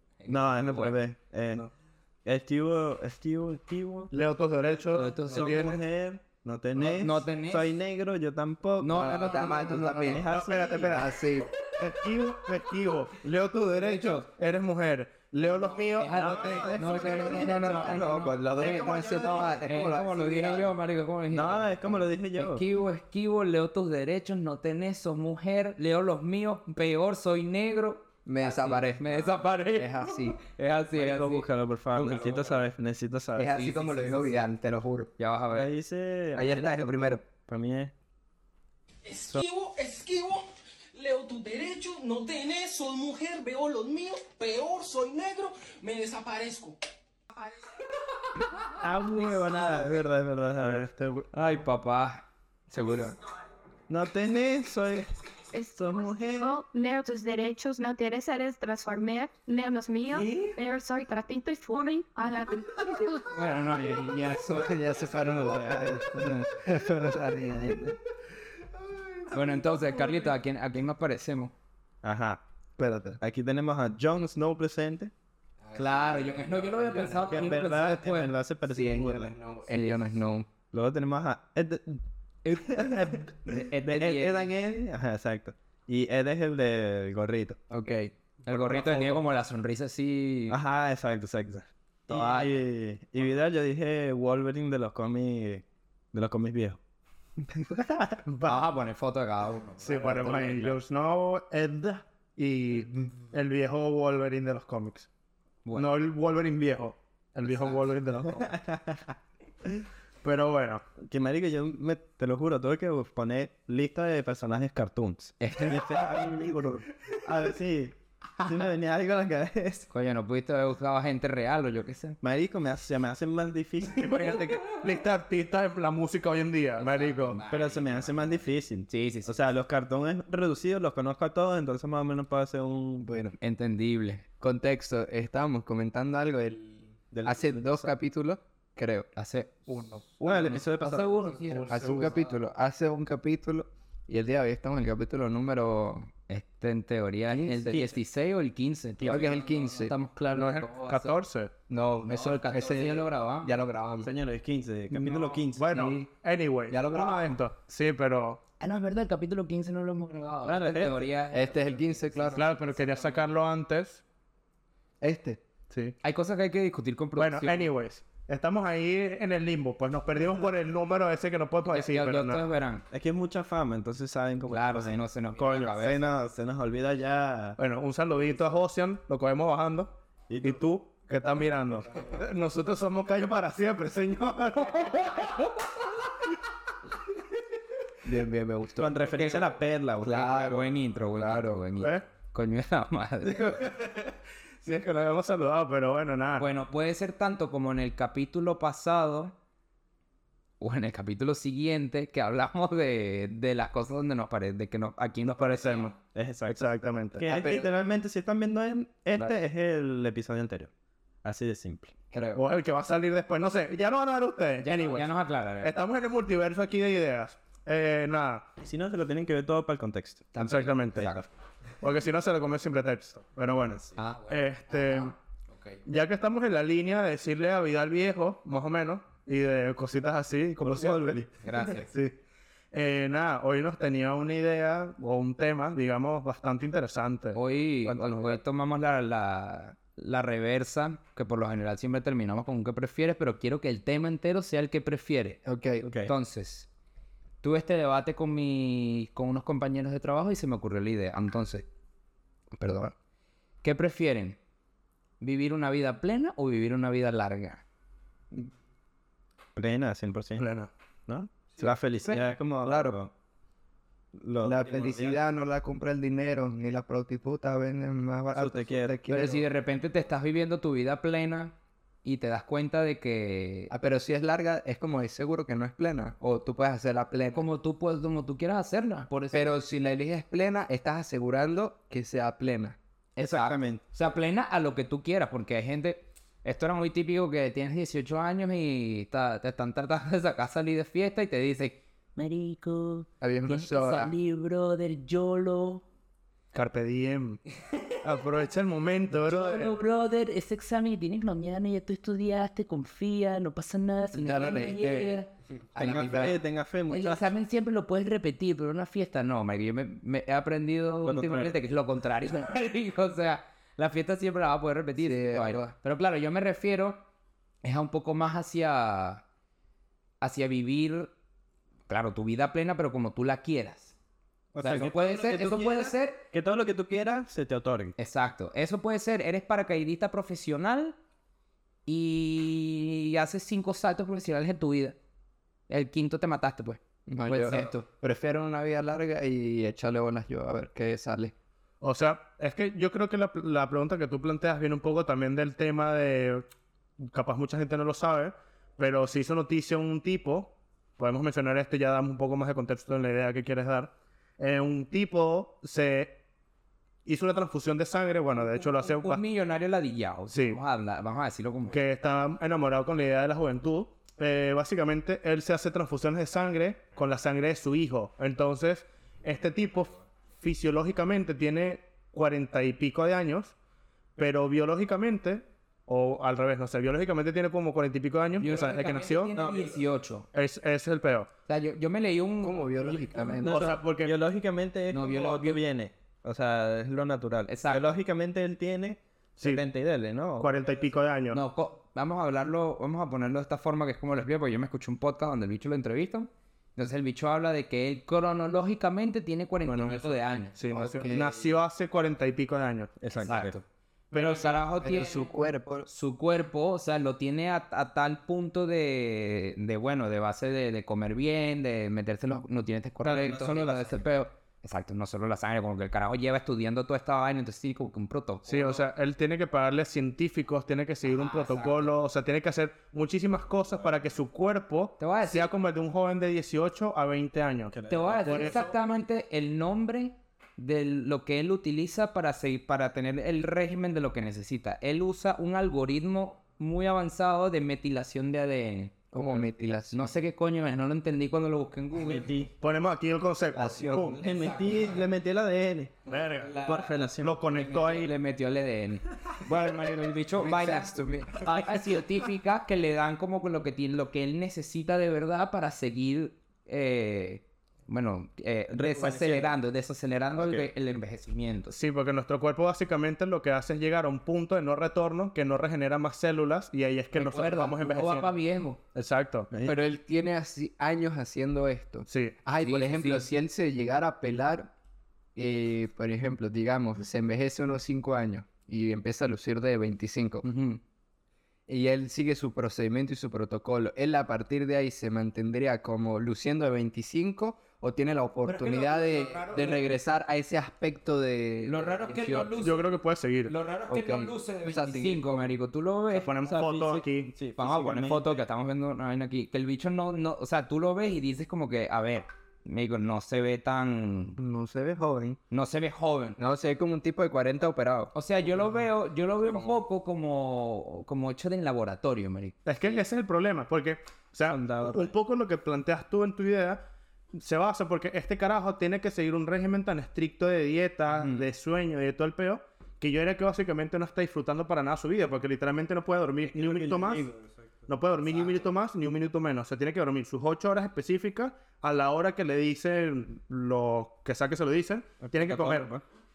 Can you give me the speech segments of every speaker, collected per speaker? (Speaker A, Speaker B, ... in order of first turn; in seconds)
Speaker A: 0.2-1.0, 4.9-5.6, 6.8-7.7, 8.8-9.8, 16.0-32.3, 35.2-35.7, 51.3-53.1, 60.1-60.5, 63.3-64.6, 69.3-71.5, 75.7-78.3, 82.5-84.5, 88.5-90.6, 92.1-92.5, 98.5-100.7, 115.4-115.8, 119.9-122.2, 126.8-128.1, 128.9-129.4, 133.4-134.3, 139.2-142.0, 146.3-151.1, 152.1-153.5, 158.6-162.8, 166.0-167.6, 171.7-172.8, 174.5-176.1, 190.1-193.6, 196.4-199.3, 200.6-205.9, 214.6-215.7, 224.0-225.8, 231.4-231.9, 237.3-245.4, 246.0-246.7, 247.4-251.7, 253.6-254.4, 255.2-257.6, 269.1-273.7, 277.4-279.5, 283.2-295.8, 299.3-305.3, 306.9-317.1, 317.6-319.2, 320.2-321.1, 321.9-323.9, 324.6-326.2, 328.0-331.0, 331.9-335.0, 335.7-337.9, 358.6-361.8, 378.4-380.3, 381.5-383.4, 384.9-385.6, 387.5-387.8, 391.3-400.5, 403.1-405.3, 405.9-418.9, 421.1-421.9, 425.0-425.5, 427.9-439.0, 439.9-442.3, 444.2-445.0, 446.4-446.9, 447.6-461.8, 467.2-468.8, 472.6-473.3, 480.4-480.8, 491.6-492.8, 493.5-496.6, 497.6-504.4, 505.5-506.4, 508.1-512.6, 521.2-521.5
Speaker B: 0.3-1.7, 2.2-4.1, 5.3-11.0, 16.2-18.1, 18.6-19.4, 21.3-22.6, 31.0-33.5, 35.5-36.7, 37.4-37.9, 48.8-50.9, 53.9-55.1, 55.8-56.6, 72.0-72.4, 73.2-75.1, 77.2-79.3, 80.7-82.0, 82.6-87.6, 88.7-89.1, 90.5-96.8, 97.7-98.2, 108.4-109.1, 111.0-119.9, 122.2-124.1, 127.5-133.1, 137.1-137.9, 140.2-141.1, 154.0-155.7, 160.4-161.1, 172.9-177.6, 180.3-180.6, 188.8-190.6, 206.1-206.6, 207.2-210.7, 211.2-211.9, 218.6-220.3, 230.6-231.3, 245.8-246.1, 259.6-260.4, 261.1-263.1, 264.1-265.2, 268.3-269.0, 283.2-283.8, 305.8-307.3, 311.1-311.5, 324.6-328.0, 379.4-379.8, 383.4-390.5, 403.0-403.6, 413.0-414.1, 427.7-428.5, 442.0-442.5, 444.1-445.9, 446.6-447.4, 458.7-459.5, 460.4-460.7, 496.5-498.4, 514.5-515.1, 526.4-528.6, 535.2-536.0
Speaker C: 4.1-5.8, 10.3-11.0, 11.7-17.9, 18.6-19.3, 50.6-51.3, 98.3-98.6, 99.8-105.1, 105.8-108.6, 110.2-110.8, 123.9-127.4, 139.7-140.0, 141.5-142.2, 150.3-151.5, 155.4-158.4, 162.3-164.0, 165.7-166.0, 167.2-172.4, 177.6-185.5, 193.4-194.1, 194.6-196.5, 205.4-205.9, 206.5-207.3, 212.4-215.1, 215.6-218.4, 220.4-221.2, 221.8-225.1, 225.9-232.2, 232.7-238.2, 260.4-260.7, 296.5-297.4, 298.0-299.8, 341.8-346.5, 347.0-356.2, 357.1-359.2, 360.3-360.6, 361.7-373.5, 374.2-379.3, 380.3-381.3, 383.5-384.1, 389.4-389.6, 390.4-391.4, 399.7-403.0, 404.1-404.6, 418.5-428.7, 442.6-444.2, 446.1-448.1, 461.7-468.3, 468.9-469.5, 472.1-472.4, 488.5-489.8, 492.6-493.5, 496.1-497.3, 512.6-516.8, 517.3-527.3, 527.9-535.9
Speaker D: 8.9-11.5, 16.8-20.7, 28.3-29.0, 29.8-30.4, 33.4-35.1, 36.3-37.2, 52.7-53.1, 64.0-68.0, 72.8-73.2, 75.7-77.2, 78.7-80.5, 87.7-88.1, 133.0-133.4, 134.4-139.1, 141.7-146.1, 147.3-147.8, 149.0-149.9, 151.7-154.1, 155.7-156.0, 156.7-157.4, 161.3-162.4, 165.0-165.4, 188.0-189.1, 190.1-190.6, 207.2-207.7, 212.1-212.4, 220.3-221.1, 245.4-245.9, 252.6-252.9, 262.1-262.9, 264.4-269.4, 273.7-277.5, 279.3-282.8, 293.2-294.1, 304.1-305.1, 305.7-306.4, 315.0-315.7, 337.1-341.3, 382.4-383.7, 400.7-401.4, 404.8-405.9, 439.1-440.0, 443.5-444.2, 450.4-451.5, 469.6-474.7, 475.4-480.5, 481.7-492.7, 493.9-495.3, 504.4-505.4, 506.4-508.1
Speaker E: 39.0-46.8
Speaker F: 55.5-63.3